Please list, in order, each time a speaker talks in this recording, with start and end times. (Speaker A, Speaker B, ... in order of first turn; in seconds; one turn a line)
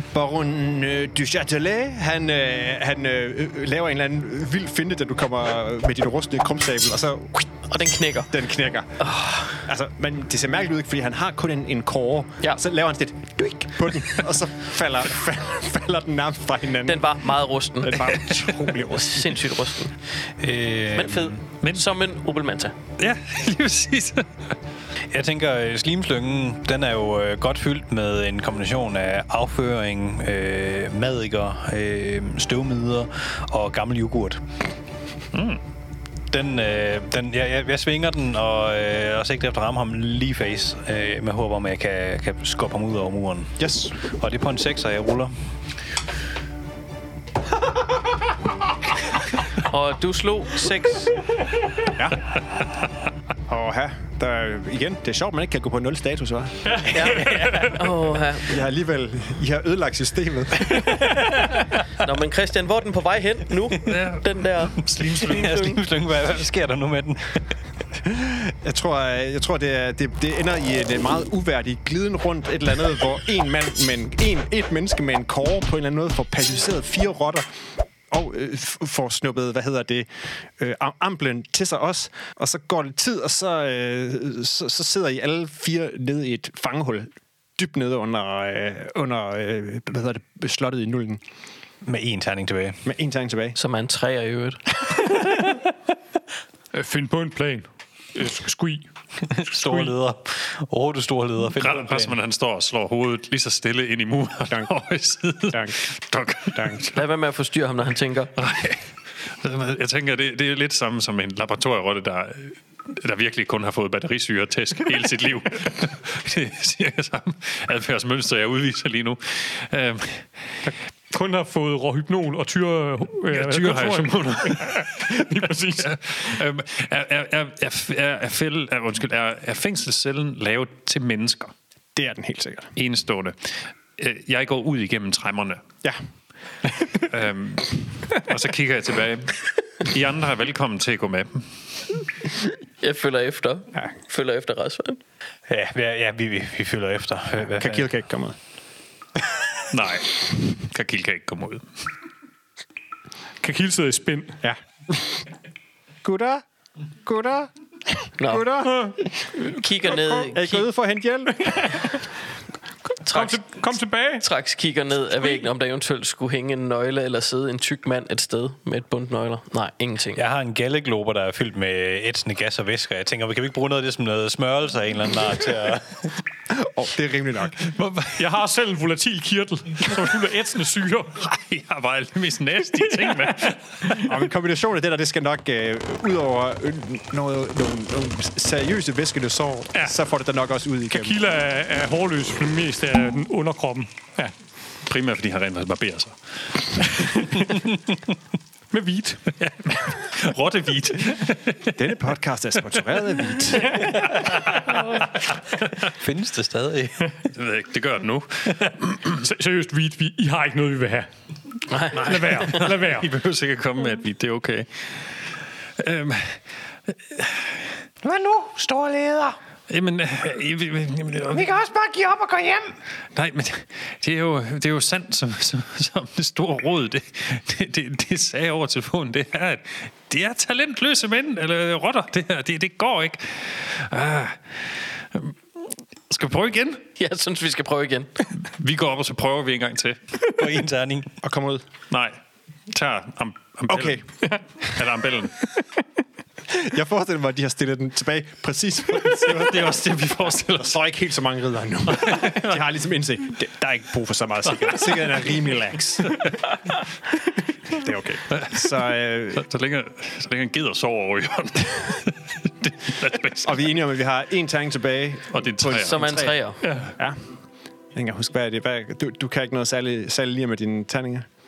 Speaker A: 0.1-7.5
Speaker B: 7.7-8.3
Speaker A: 8.3-17.1
Speaker B: 9.0-9.6
Speaker B: 16.9-18.3
Speaker A: 17.8-19.4
Speaker B: 18.9-19.9
Speaker C: 20.4-21.4
Speaker B: 20.9-22.7
Speaker D: 23.0-24.3
Speaker C: 25.1-34.4
Speaker D: 35.3-35.6
Speaker C: 36.3-45.3
Speaker A: 43.6-43.9
Speaker B: 49.6-51.1
Speaker A: 53.5-57.7
Speaker B: 56.9-58.6
Speaker E: 57.1-57.7
Speaker A: 58.4-61.2
Speaker B: 62.0-65.8
Speaker D: 63.9-65.6
Speaker C: 65.2-67.5
Speaker A: 68.2-77.5
Speaker A: 78.1-91.2
Speaker C: 91.8-92.8
Speaker A: 92.8-93.6
Speaker B: 93.6-94.7
Speaker E: 96.7-98.9
Speaker C: 99.3-102.2
Speaker E: 99.6-99.9
Speaker D: 101.5-107.0
Speaker A: 105.5-105.8
Speaker A: 106.5-106.9
Speaker B: 106.9-108.3
Speaker D: 108.4-120.3
Speaker E: 120.7-126.4
Speaker D: 123.3-131.5
Speaker A: 131.9-132.7
Speaker D: 132.8-135.7
Speaker D: 137.0-141.5
Speaker B: 142.8-145.0
Speaker C: 145.5-147.9
Speaker A: 147.4-148.4
Speaker D: 149.7-151.7
Speaker E: 153.4-154.4
Speaker A: 154.4-155.2
Speaker A: 156.0-156.4
Speaker A: 157.0-159.1
Speaker B: 158.2-158.6
Speaker E: 158.7-159.5
Speaker B: 159.4-160.7
Speaker A: 160.3-161.9
Speaker B: 163.0-163.6
Speaker E: 163.1-164.2
Speaker B: 164.2-170.2
Speaker C: 170.2-176.2
Speaker A: 176.5-177.6
Speaker D: 177.6-178.2
Speaker E: 178.2-181.2
Speaker D: 181.2-184.0
Speaker E: 182.8-184.1
Speaker A: 184.0-191.2
Speaker E: 190.9-194.3
Speaker D: 194.9-196.9
Speaker E: 197.0-197.4
Speaker E: 198.7-199.2
Speaker D: 199.4-201.9
Speaker A: 201.8-204.2
Speaker D: 203.8-204.8
Speaker C: 205.8-207.1
Speaker D: 207.3-209.2
Speaker E: 209.2-211.1
Speaker B: 211.7-212.6
Speaker E: 211.8-213.1
Speaker D: 212.2-216.4
Speaker D: 217.1-217.7
Speaker F: 218.0-219.4
Speaker D: 219.7-221.5
Speaker F: 221.3-222.8
Speaker D: 223.1-235.4
Speaker D: 236.1-236.8
Speaker B: 237.0-238.2
Speaker D: 238.4-240.0
Speaker C: 240.3-241.2
Speaker A: 241.2-241.6
Speaker D: 241.9-242.2
Speaker D: 242.7-245.5
Speaker A: 243.7-244.0
Speaker A: 246.5-249.8
Speaker D: 249.1-250.8
Speaker A: 250.4-256.2
Speaker D: 251.9-252.6
Speaker D: 254.6-255.3
Speaker D: 256.1-256.4
Speaker A: 257.7-259.4
Speaker D: 258.3-263.7
Speaker A: 263.4-266.4
Speaker D: 265.3-266.2
Speaker B: 265.8-266.6
Speaker E: 266.6-266.9
Speaker A: 267.9-271.3